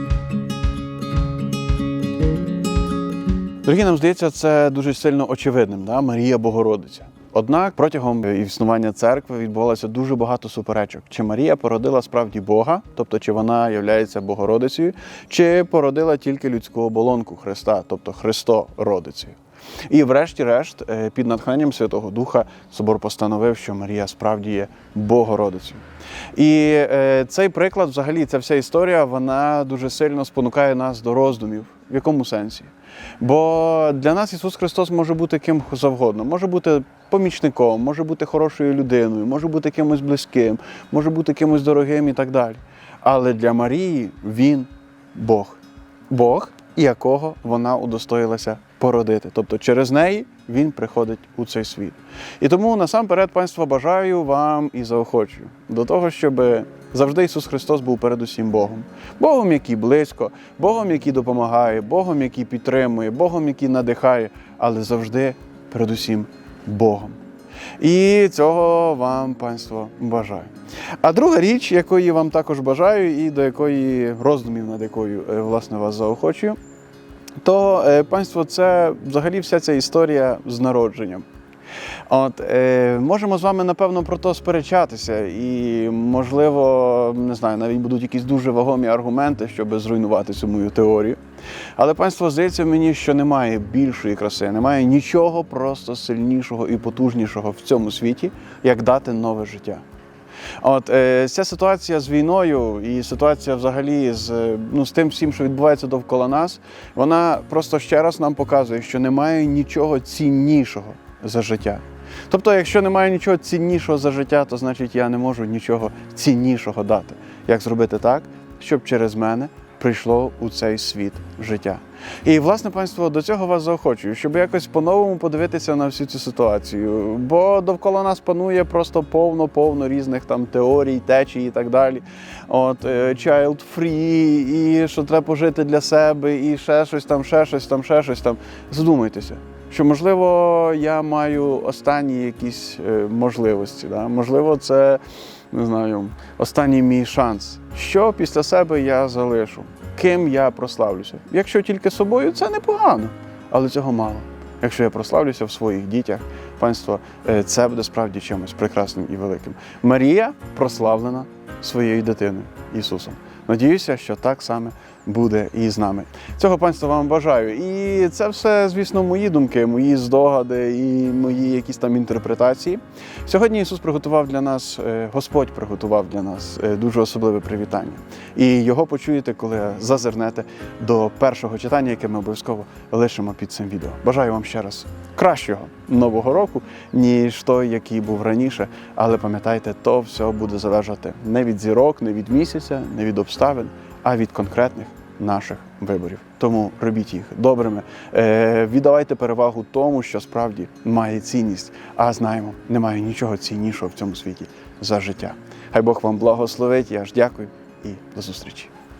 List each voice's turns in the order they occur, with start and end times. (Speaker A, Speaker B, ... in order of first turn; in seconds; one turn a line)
Speaker A: 3.6-67.2
Speaker A: 67.8-76.6
Speaker A: 77.4-81.3
Speaker A: 82.1-91.2
Speaker A: 91.8-99.8
Speaker A: 100.6-208.7